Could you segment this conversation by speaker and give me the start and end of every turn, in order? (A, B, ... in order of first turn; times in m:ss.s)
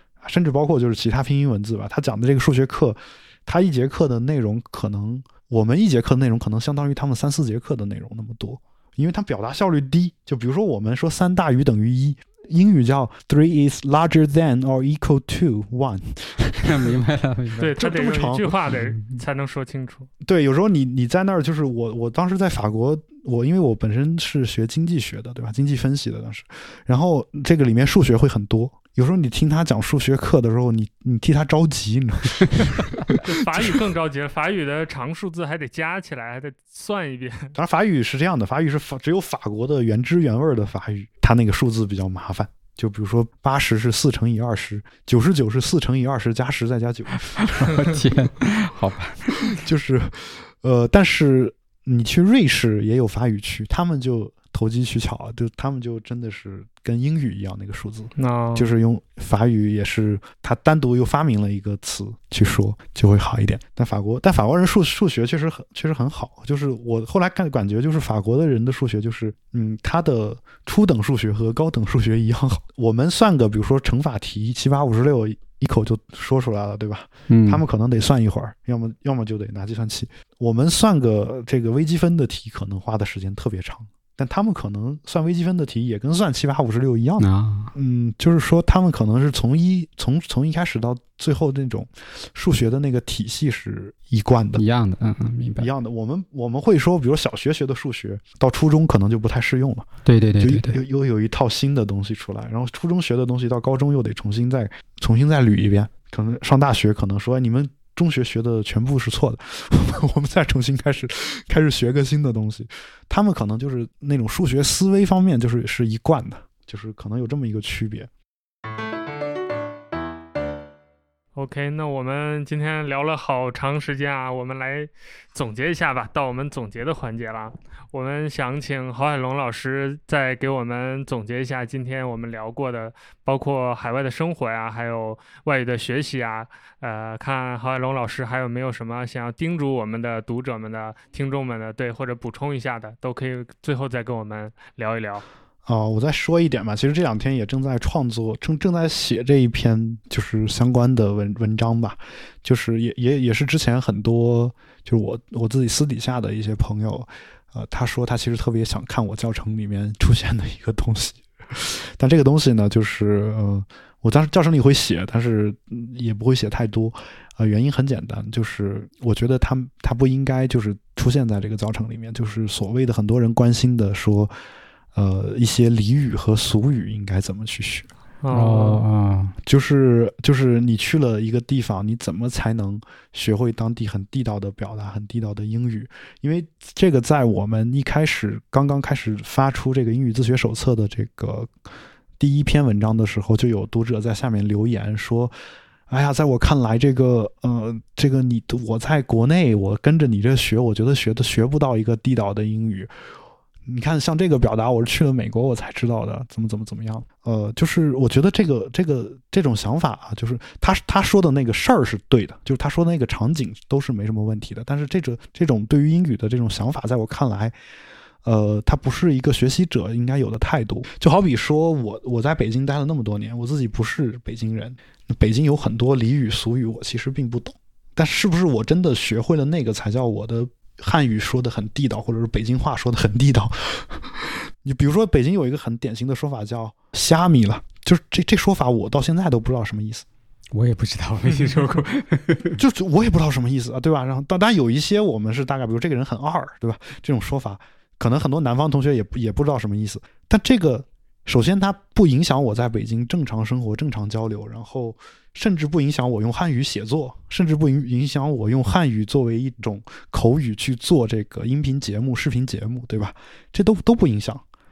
0:00.2-0:16.9 A
0:16.6-0:17.7 B
0:17.6-0:20.1 C
0:17.7-0:18.6 A
0:18.7-0:19.2 B
0:20.2-0:33.8 A
0:33.1-0:37.5 C
0:37.5-0:47.8 A
0:47.3-0:49.6 B
0:49.4-1:34.6 A
0:58.2-0:58.7 C
1:17.3-1:17.6 B
1:27.2-1:27.7 B
1:34.6-1:35.7 B
1:35.6-1:39.9 A
1:40.0-1:40.8 B
1:40.4-1:58.1 A
2:01.4-2:25.2 C
2:25.6-2:54.3 A
2:54.9-2:57.9 A
2:58.2-2:58.8 C
2:58.3-2:59.4 B
2:59.4-3:11.5 A
3:12.2-3:15.3 A
3:15.9-3:22.9 A
3:23.6-3:37.5 A
3:38.2-4:00.0 A
4:00.5-4:02.6 B
4:02.5-4:24.4 A